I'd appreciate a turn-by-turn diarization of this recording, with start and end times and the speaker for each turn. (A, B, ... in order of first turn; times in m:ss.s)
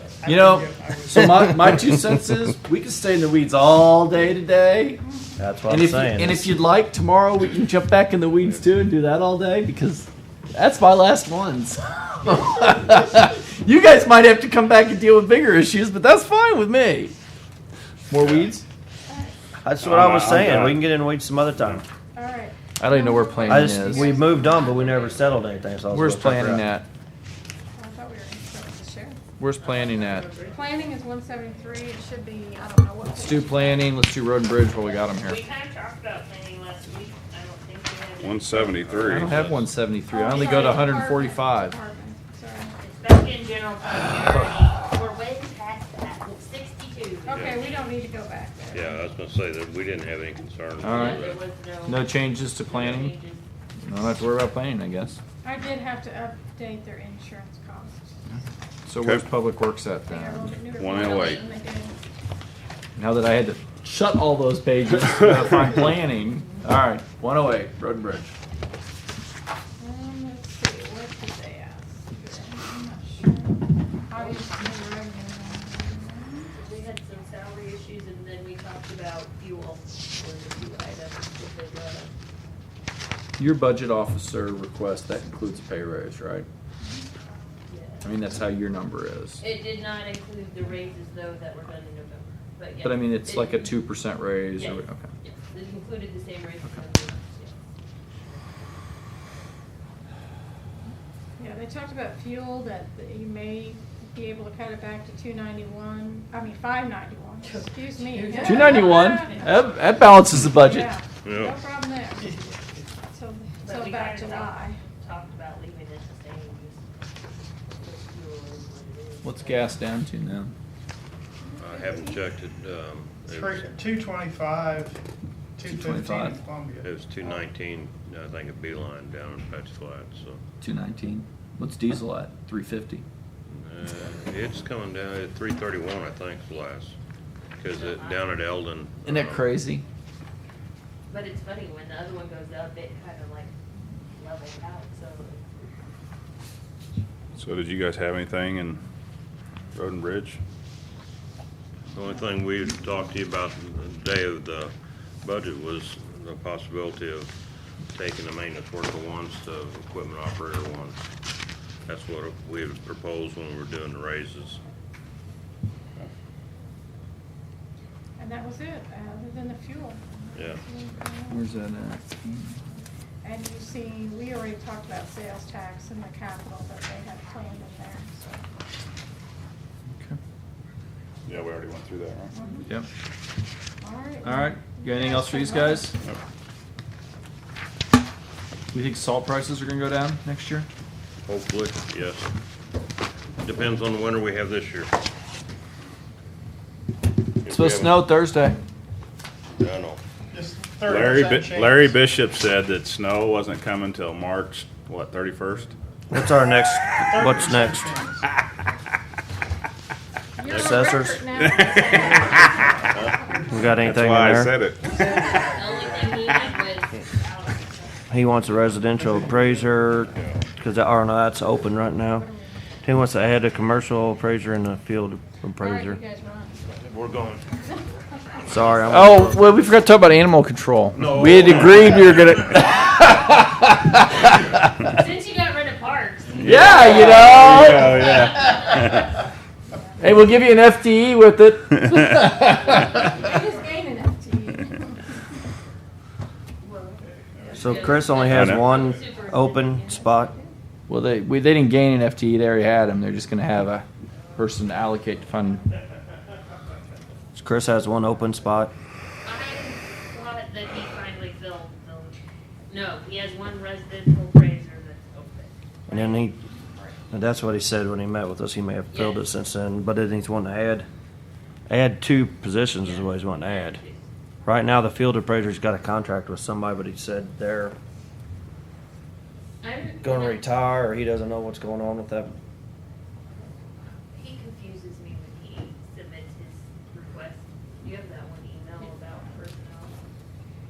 0:00.2-0:01.3 A
0:00.2-0:05.0 B
0:05.4-0:06.5 C
0:05.7-0:17.1 B
0:18.1-0:18.6 B
0:18.2-0:18.5 D
0:19.1-0:19.3 E
0:19.6-0:21.8 C
0:19.8-0:20.8 F
0:19.9-0:20.8 D
0:22.1-0:25.3 E
0:22.8-0:24.1 B
0:23.4-0:26.7 C
0:25.9-0:26.9 B
0:27.8-0:29.2 E
0:29.4-0:30.3 B
0:29.6-0:31.0 G
0:30.4-0:34.0 E
0:33.0-0:35.4 B
0:34.9-0:38.9 G
0:38.2-0:39.6 D
0:38.6-0:39.5 F
0:39.0-0:41.8 B
0:40.1-0:42.7 E
0:40.5-0:40.8 G
0:42.8-0:47.8 G
0:47.2-0:49.0 E
0:47.3-0:47.9 F
0:48.7-0:51.4 F
0:50.8-0:51.2 B
0:50.8-0:53.5 G
0:51.8-0:53.2 B
0:53.8-0:55.2 B
0:55.4-0:58.1 E
0:58.8-1:00.6 B
0:59.0-0:59.2 D
1:00.0-1:02.0 E
1:00.7-1:01.5 D
1:01.0-1:01.4 G
1:03.0-1:08.3 B
1:09.8-1:16.5 E
1:14.1-1:14.7 G
1:16.5-1:22.1 G
1:23.4-1:26.5 B
1:27.7-1:28.1 G
1:28.0-1:29.4 B
1:29.4-1:33.8 G
1:32.8-1:35.1 B
1:34.5-1:38.8 G
1:41.4-1:49.7 E
1:47.4-1:50.2 G
1:48.4-1:50.9 B
1:50.5-1:54.8 E
1:51.2-1:51.6 F
1:53.6-1:56.9 G
1:57.7-1:59.9 G
1:59.2-2:00.5 B
2:01.4-2:02.3 E
2:01.6-2:03.7 F
2:03.3-2:05.0 A
2:05.6-2:06.9 A
2:05.6-2:06.4 B
2:06.8-2:10.4 F
2:10.6-2:13.0 B
2:13.4-2:17.0 F
2:17.6-2:19.6 F
2:17.7-2:18.4 G
2:19.0-2:19.8 B
2:21.1-2:23.5 G
2:24.1-2:25.5 G
2:27.4-2:28.8 D
2:29.7-2:30.4 D
2:31.9-2:37.3 F
2:37.9-2:41.0 F
2:41.9-2:44.6 F
2:48.2-2:51.4 E
2:50.3-2:50.6 F
2:51.3-2:52.6 B
2:53.2-2:58.4 E
3:01.3-3:02.3 D
3:02.3-3:02.7 E
3:03.8-3:06.0 E
3:04.2-3:05.9 B
3:08.7-3:10.7 B
3:11.2-3:12.3 F
3:13.4-3:14.9 F
3:17.4-3:18.1 F
3:17.5-3:18.6 B
3:19.6-3:20.0 F
3:20.3-3:22.0 A
3:20.8-3:25.7 D
3:26.1-3:27.9 C
3:27.0-3:28.2 A
3:30.4-3:33.8 E
3:30.5-3:31.2 C
3:31.6-3:33.1 D
3:33.5-3:34.5 C
3:33.8-3:34.8 D
3:34.8-3:38.0 G
3:34.8-3:35.4 E
3:38.1-3:42.3 C
3:39.1-3:39.4 A
3:42.1-3:42.8 E
3:42.8-3:46.0 C
3:45.6-3:46.7 E
3:46.8-3:47.6 F
3:48.5-3:49.6 C
3:48.9-3:54.3 B
3:51.0-3:52.0 F
3:54.8-4:00.2 G
3:56.4-3:59.1 D
3:56.4-3:58.2 B
4:00.0-4:03.0 B
4:02.4-4:03.6 G
4:03.2-4:05.0 E
4:06.6-4:10.5 G
4:07.5-4:10.3 C
4:08.2-4:08.8 D
4:10.9-4:15.6 B
4:14.1-4:15.6 G
4:17.3-4:18.7 C
4:19.2-4:25.5 G
4:25.9-4:26.4 C
4:26.5-4:27.0 E
4:27.1-4:30.8 C
4:28.9-4:29.2 G
4:31.7-4:33.8 C
4:32.8-4:34.0 G
4:34.4-4:37.8 C
4:39.6-4:40.6 G
4:40.0-4:42.3 C
4:44.1-4:50.0 G